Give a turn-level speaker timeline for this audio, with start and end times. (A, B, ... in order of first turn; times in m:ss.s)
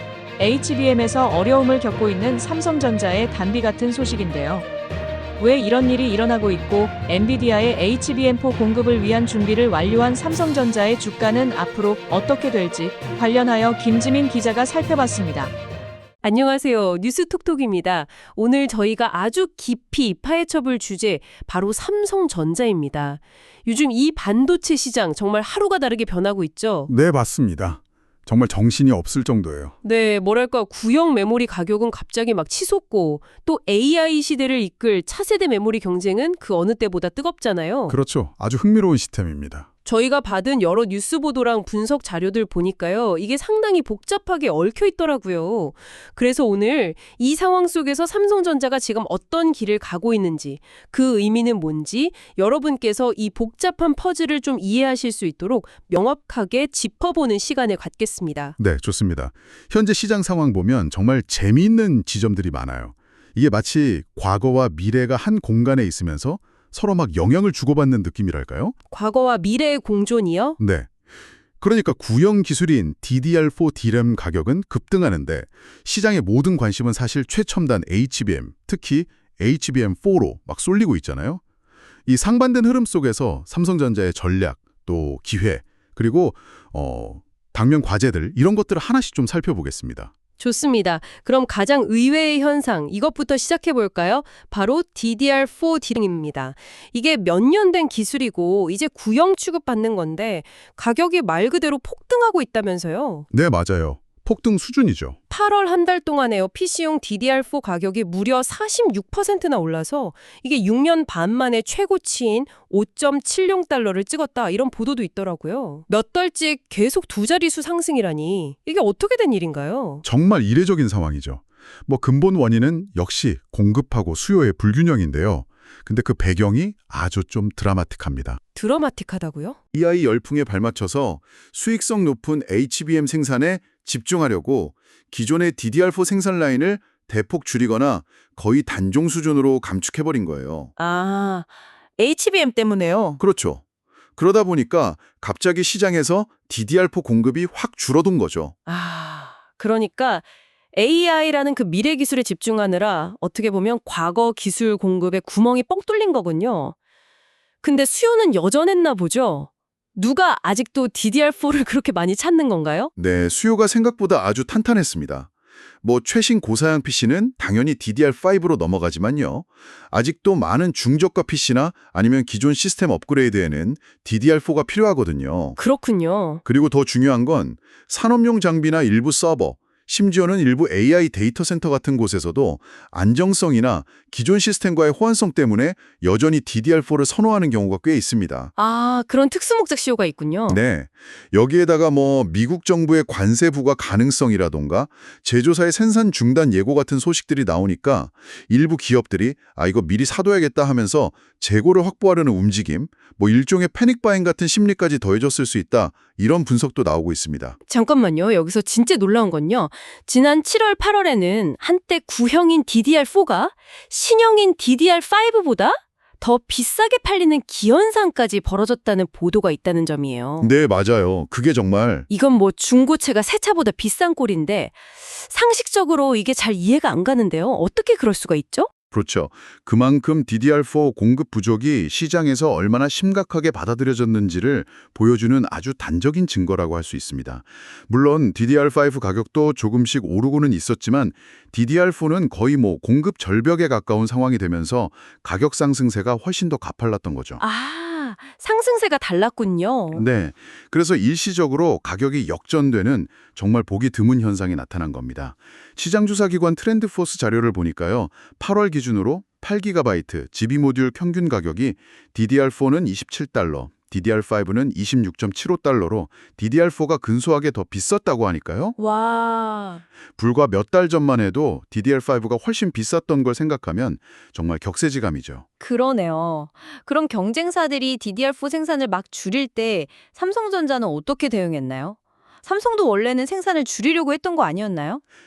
0:00.4-0:04.5 A
0:05.4-0:15.5 A
0:16.2-0:26.9 B
0:26.9-0:29.7 C
0:29.8-0:38.0 B
0:37.9-0:39.7 C
0:39.8-0:58.6 B
0:58.6-1:08.7 C
1:08.9-1:10.6 B
1:10.6-1:10.9 C
1:11.6-1:21.4 C
1:22.0-1:30.1 C
1:30.4-1:43.2 B
1:43.3-1:45.2 C
1:45.3-2:00.0 B
2:00.0-2:08.4 C
2:08.5-2:09.6 B
2:09.7-2:20.7 C
2:20.8-2:21.5 B
2:22.0-2:22.8 B
2:22.6-2:23.2 D
2:23.2-2:23.6 C
2:24.2-2:28.5 C
2:28.6-2:36.7 B
2:37.6-2:42.9 B
2:43.0-2:45.3 C
2:45.8-2:55.6 C
2:55.6-2:56.4 B
2:56.4-3:08.5 C
3:08.6-3:10.6 B
3:10.5-3:27.6 C
3:27.7-3:40.5 B
3:40.4-3:42.1 C
3:42.1-3:48.7 B
3:48.9-4:07.4 C
4:07.4-4:10.0 B
4:09.9-4:28.8 C
4:29.1-4:29.6 B
4:30.2-4:35.4 C
4:35.6-4:45.0 D